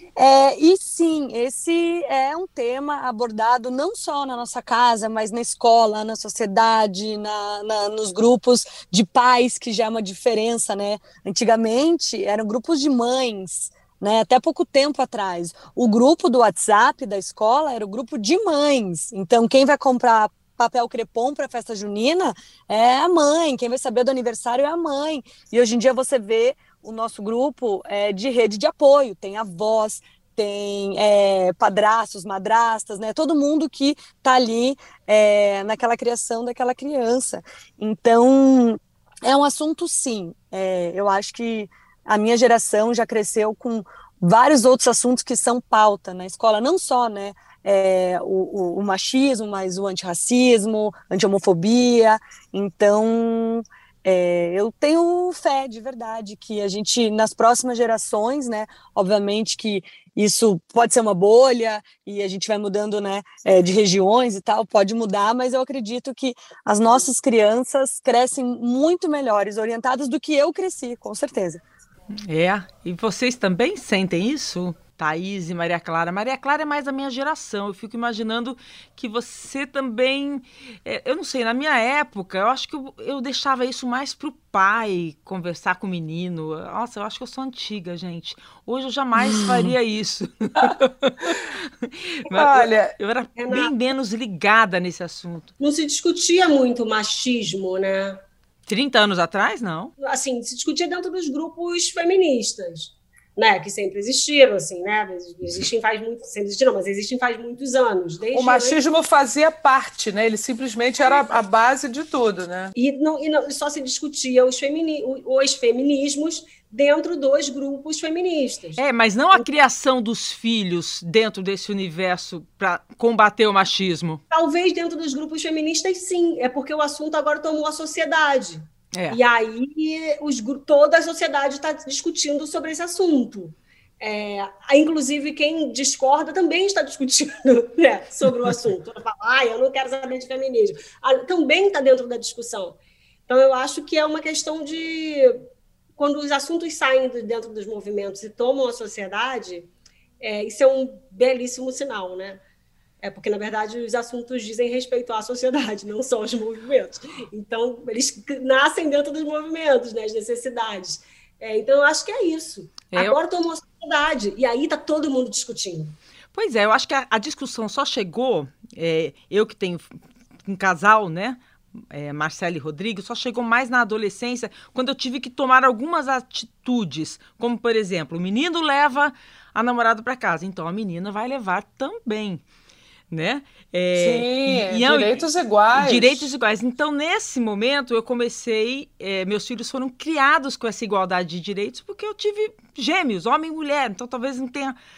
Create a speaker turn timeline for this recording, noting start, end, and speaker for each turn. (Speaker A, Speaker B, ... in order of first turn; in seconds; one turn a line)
Speaker A: 0.1-71.6
Speaker B: 72.2-95.5
Speaker C: 90.6-91.3
Speaker C: 92.3-92.9
Speaker D: 93.4-93.7
Speaker D: 95.6-98.2
Speaker B: 98.7-99.9
Speaker D: 100.0-108.8
Speaker C: 108.3-112.7
Speaker D: 112.8-118.8
Speaker B: 118.8-124.2
Speaker D: 124.3-145.4
Speaker B: 128.9-129.2
Speaker D: 146.0-149.7
Speaker D: 150.2-152.4
Speaker D: 153.0-165.9
Speaker B: 162.9-163.2
Speaker B: 166.3-182.4
Speaker B: 183.1-194.8
Speaker C: 183.9-186.3